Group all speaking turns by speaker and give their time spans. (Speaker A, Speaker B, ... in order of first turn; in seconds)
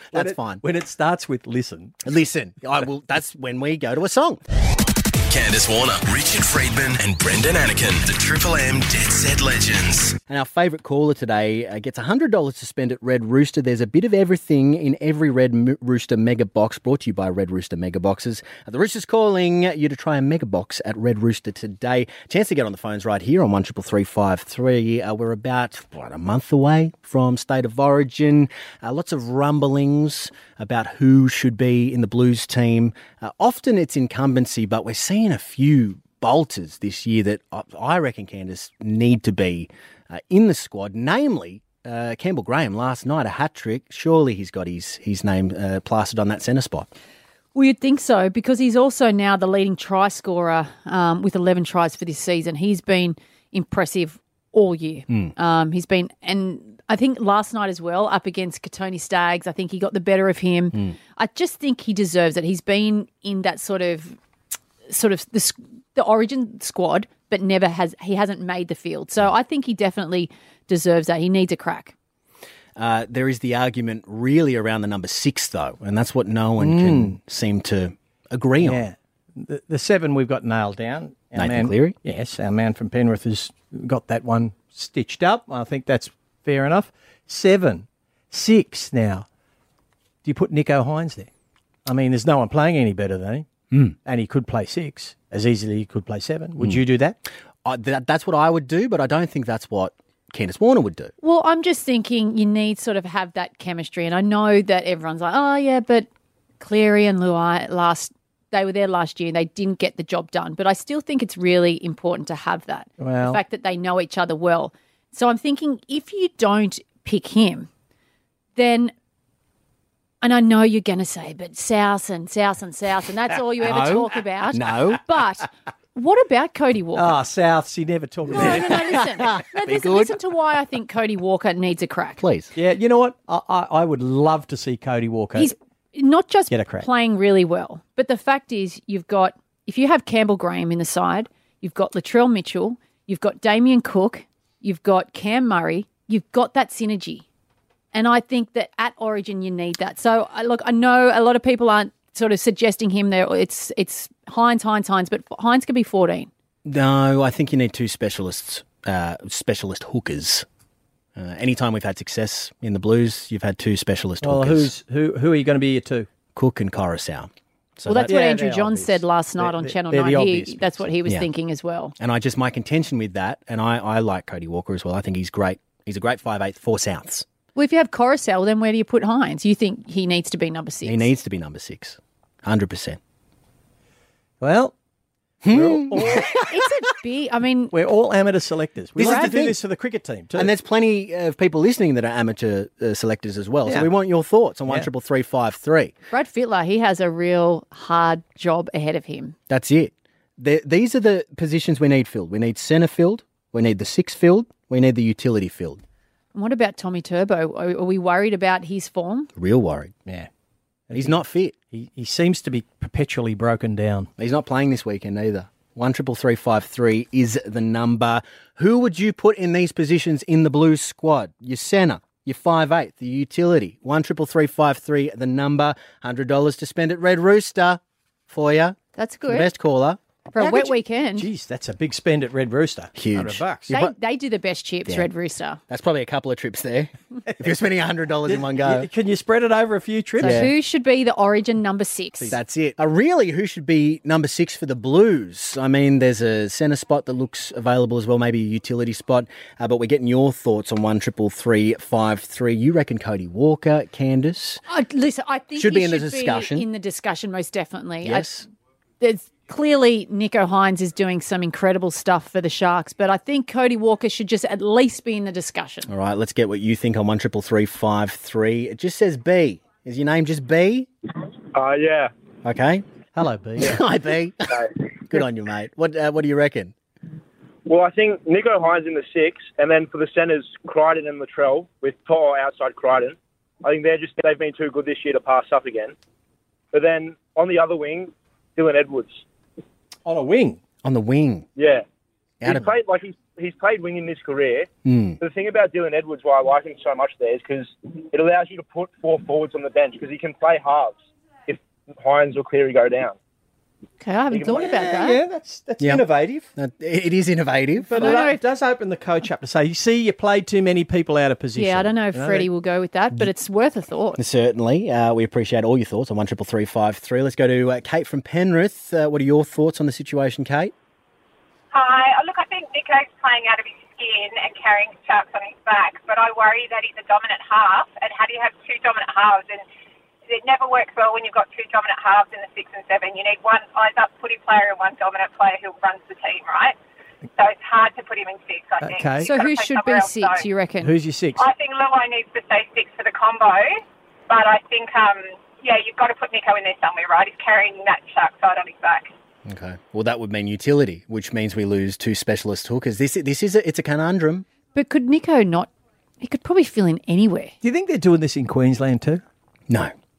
Speaker A: 0.1-0.6, 2.0-4.4, 10.3-46.9, 72.8-78.8, 81.3-82.0, 93.7-94.0, 97.6-101.1, 123.6-125.0, 128.3-130.2, 132.2-132.5, 156.6-160.4, 161.2-164.7, 166.3-168.2, 172.0-177.2, 180.8-183.0, 185.4-186.3, 189.0-189.6, 190.3-195.9, 199.5-205.8, 209.4-209.9, 210.9-211.5, 214.2-230.0, 232.9-233.9, 235.7-238.9, 240.2-240.5, 242.3-254.6, 255.6-256.7, 258.0-258.4, 265.9-270.9, 272.4-272.8, 273.6-276.7, 290.8-291.4, 292.4-292.7, 294.9-295.2, 306.6-308.3, 314.2-320.7, 349.4-354.4
Speaker B: 0.1-2.0, 76.6-77.2, 78.6-89.2, 90.2-91.3, 91.8-93.5, 94.0-97.2, 113.0-113.4, 127.0-129.0, 132.6-135.5, 136.5-136.9, 164.2-166.1, 168.1-170.9, 184.4-184.7, 185.5-186.4, 187.7-190.5, 210.9-211.2, 211.7-214.1, 230.4-233.7, 238.2-240.5, 273.1-273.8, 290.1-290.6, 304.5-306.4, 307.9-312.5, 338.8-339.3, 340.8-341.4, 357.6-359.2
Speaker C: 5.3-10.2
Speaker D: 47.5-64.2, 64.9-71.9, 101.2-106.1, 106.6-117.7, 118.5-118.9, 120.2-127.1, 128.3-132.2, 135.3-147.2, 147.9-156.3, 167.9-171.9, 177.5-181.1, 186.2-187.7, 189.0-189.4, 196.1-199.3, 206.3-209.3, 228.9-229.5, 230.3-231.3, 233.7-235.6, 240.2-242.4, 254.7-258.3, 259.0-265.9, 304.0-305.2, 307.9-308.4, 311.6-314.2, 339.2-340.9, 354.7-355.7, 356.2-357.5
Speaker E: 271.5-272.1, 277.6-285.9, 286.7-289.2, 291.6-291.9, 292.4-294.7, 295.2-303.1, 304.3-304.6
Speaker F: 321.7-329.6, 330.3-336.8, 337.4-340.4, 341.4-349.1